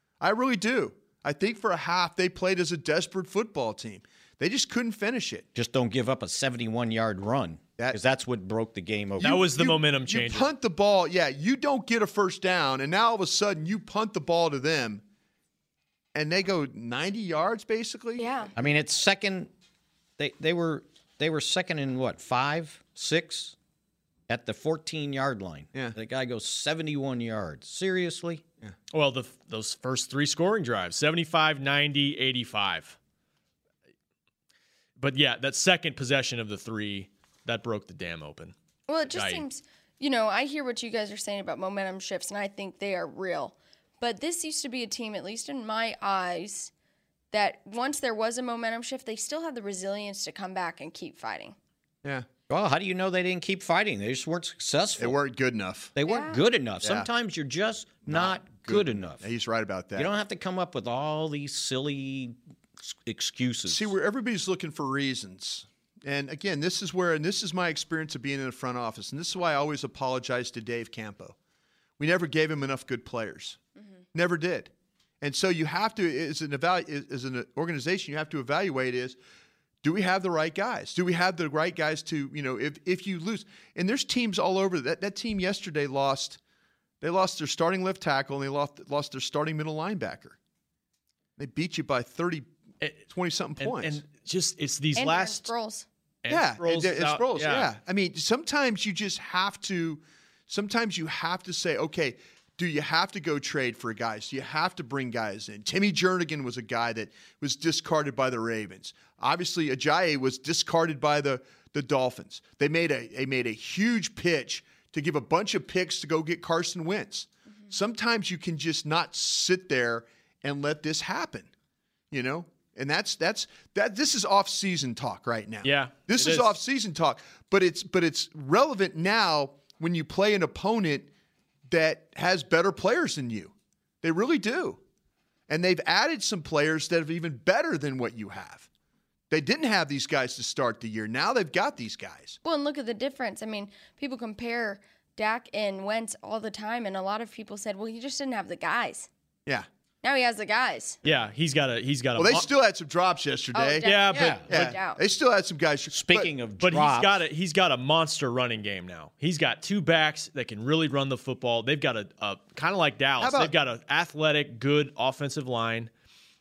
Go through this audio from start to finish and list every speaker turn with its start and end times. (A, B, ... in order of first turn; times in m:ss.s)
0:00.2-0:05.5 A
0:05.5-0:09.4 B
0:09.2-0:10.5 C
0:09.2-0:15.0 A
0:16.1-0:18.5 A
0:18.2-0:18.5 D
0:18.6-0:19.5 B
0:20.2-0:23.5 B
0:24.3-0:28.4 B
0:28.9-0:33.0 C
0:35.0-0:38.5 C
0:38.9-0:46.7 D
0:39.1-0:39.4 C
0:47.3-0:51.6 D
0:52.5-0:55.2 B
0:55.0-0:55.9 A
0:55.9-0:59.3 B
0:56.0-0:56.4 D
0:56.8-0:57.1 A
0:58.0-1:00.1 A
1:00.0-1:03.9 B
1:03.7-1:11.3 A
1:12.0-1:13.6 A
1:14.1-1:19.2 A
1:19.8-1:26.4 A
1:27.0-1:30.4 A
1:31.4-1:32.5 A
1:33.1-1:34.0 A
1:33.6-1:35.5 C
1:35.0-1:35.8 D
1:36.2-1:37.7 C
1:36.3-2:01.5 A
2:02.1-2:11.1 A
2:05.6-2:06.5 C
2:11.7-2:14.8 A
2:15.5-2:18.7 A
2:19.3-2:22.4 A
2:22.4-2:29.1 D
2:30.0-2:31.0 D
2:31.0-2:32.5 C
2:32.2-2:36.3 A
2:33.5-2:35.0 D
2:33.8-2:34.5 C
2:34.1-2:34.7 B
2:35.9-2:37.2 B
2:36.6-2:45.9 C
2:43.2-2:43.5 A